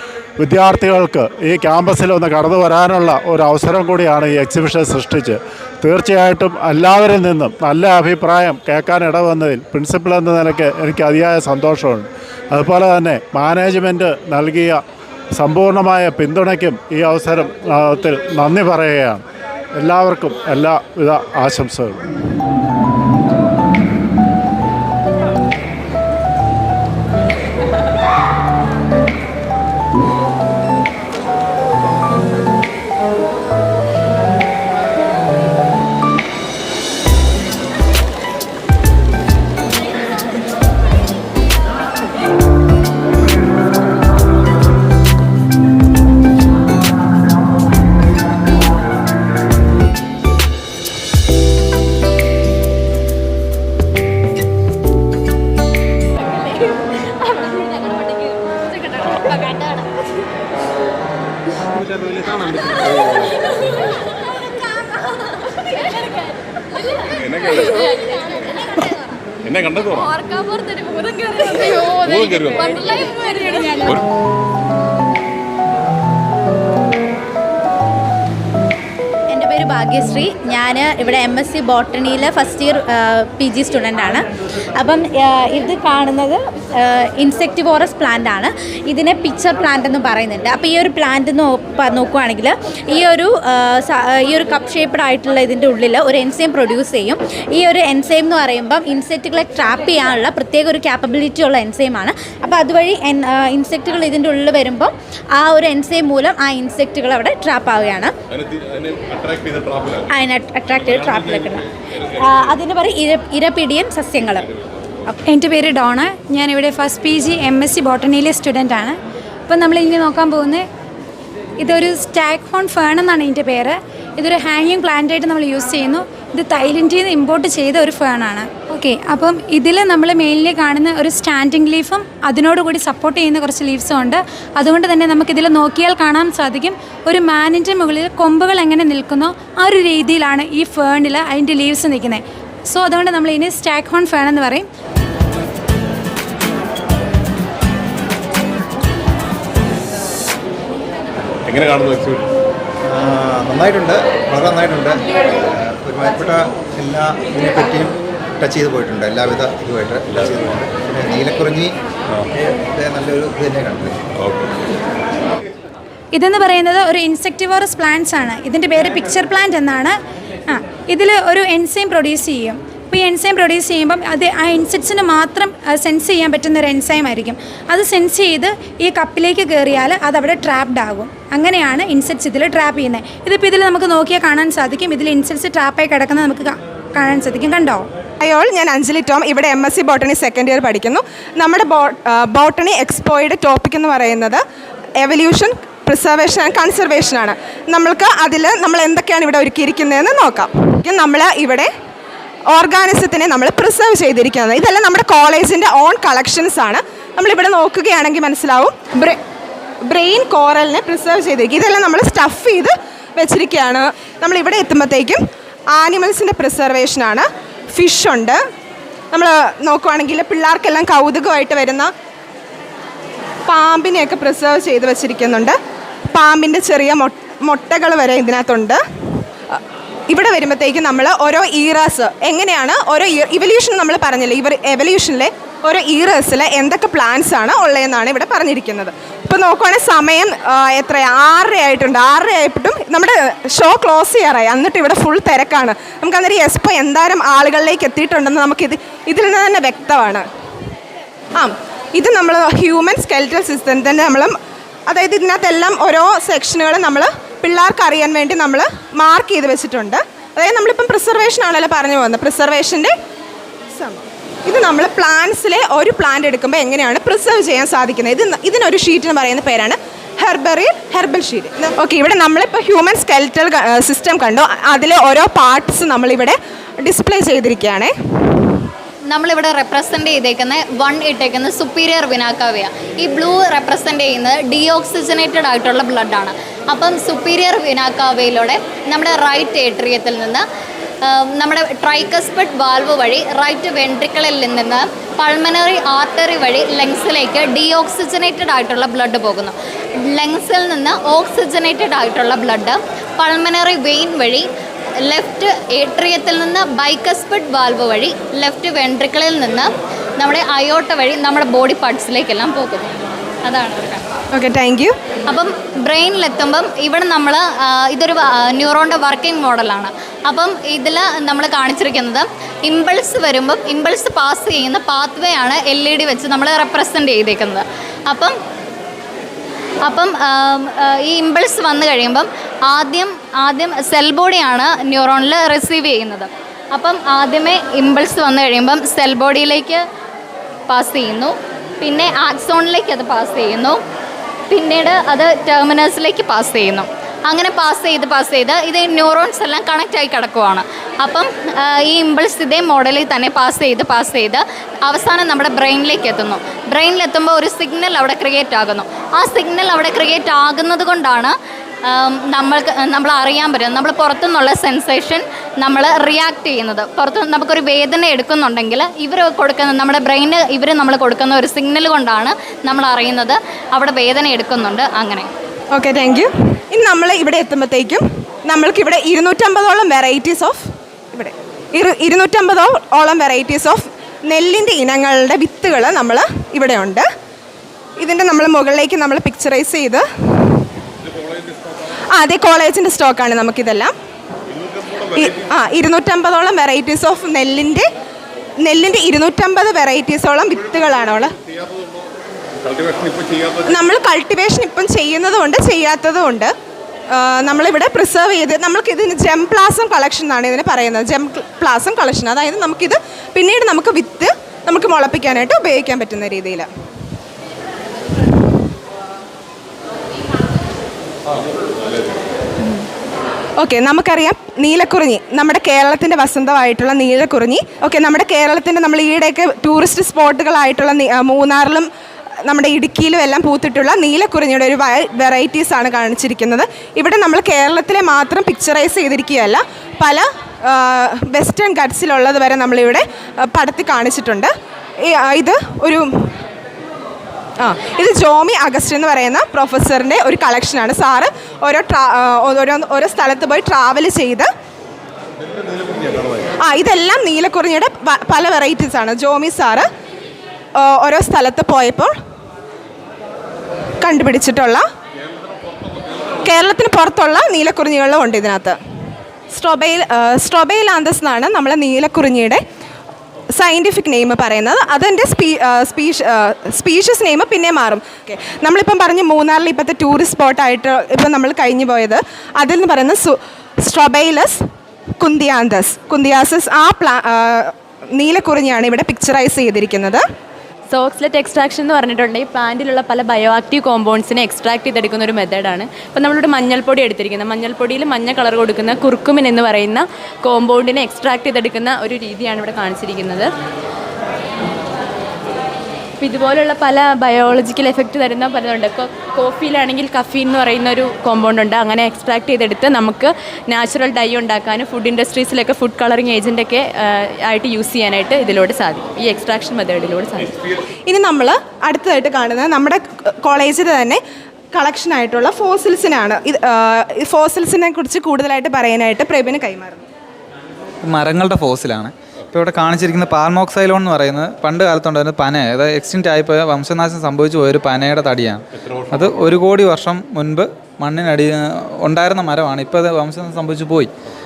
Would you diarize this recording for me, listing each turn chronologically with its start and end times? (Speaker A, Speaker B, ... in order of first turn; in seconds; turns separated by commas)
Speaker A: 0.4-14.8, Speaker A: 15.4-19.2, Speaker A: 19.7-22.0, Speaker B: 61.7-63.3, Speaker B: 67.1-67.9, Speaker B: 69.4-70.1, Speaker B: 72.0-72.7, Speaker B: 73.8-74.1, Speaker C: 79.3-84.2, Speaker C: 84.8-108.1, Speaker B: 108.3-110.1, Speaker C: 110.1-114.5, Speaker B: 110.8-112.5, Speaker D: 115.1-119.0, Speaker D: 119.5-120.7, Speaker D: 121.6-144.7, Speaker B: 151.5-152.3, Speaker E: 152.8-161.7, Speaker E: 162.3-163.9, Speaker B: 164.2-164.5, Speaker D: 166.1-169.9, Speaker D: 170.5-187.9, Speaker F: 188.2-194.4, Speaker F: 195.0-201.7, Speaker F: 202.5-209.2, Speaker F: 209.8-218.4, Speaker F: 219.1-221.9, Speaker F: 223.5-225.6, Speaker F: 226.1-228.8, Speaker F: 229.5-250.2, Speaker F: 251.3-254.4, Speaker F: 254.9-262.9, Speaker F: 263.7-277.9, Speaker G: 279.1-290.4, Speaker G: 291.0-304.4, Speaker G: 305.0-312.9, Speaker G: 313.4-314.0, Speaker F: 314.3-314.9, Speaker G: 315.3-328.3, Speaker G: 329.8-339.8, Speaker G: 340.7-343.8, Speaker G: 344.5-361.3, Speaker G: 361.9-375.3, Speaker F: 375.7-387.1, Speaker F: 388.0-390.1, Speaker B: 391.0-391.9, Speaker F: 392.1-393.9, Speaker B: 394.5-395.5, Speaker F: 395.1-397.9, Speaker F: 398.6-401.4, Speaker B: 401.4-402.1, Speaker B: 402.6-403.8, Speaker F: 403.7-406.5, Speaker F: 407.1-416.7, Speaker F: 423.6-431.9, Speaker F: 432.4-446.3, Speaker F: 447.6-454.5, Speaker B: 455.4-456.5, Speaker F: 456.6-459.9, Speaker F: 460.8-462.1, Speaker F: 464.0-464.9, Speaker B: 465.2-466.4, Speaker F: 466.4-468.8, Speaker F: 469.5-472.6, Speaker F: 473.5-484.6, Speaker F: 485.2-490.2, Speaker H: 490.9-503.5, Speaker H: 506.2-520.6, Speaker F: 521.1-524.2, Speaker F: 524.7-530.1, Speaker I: 531.0-544.1, Speaker B: 538.9-539.3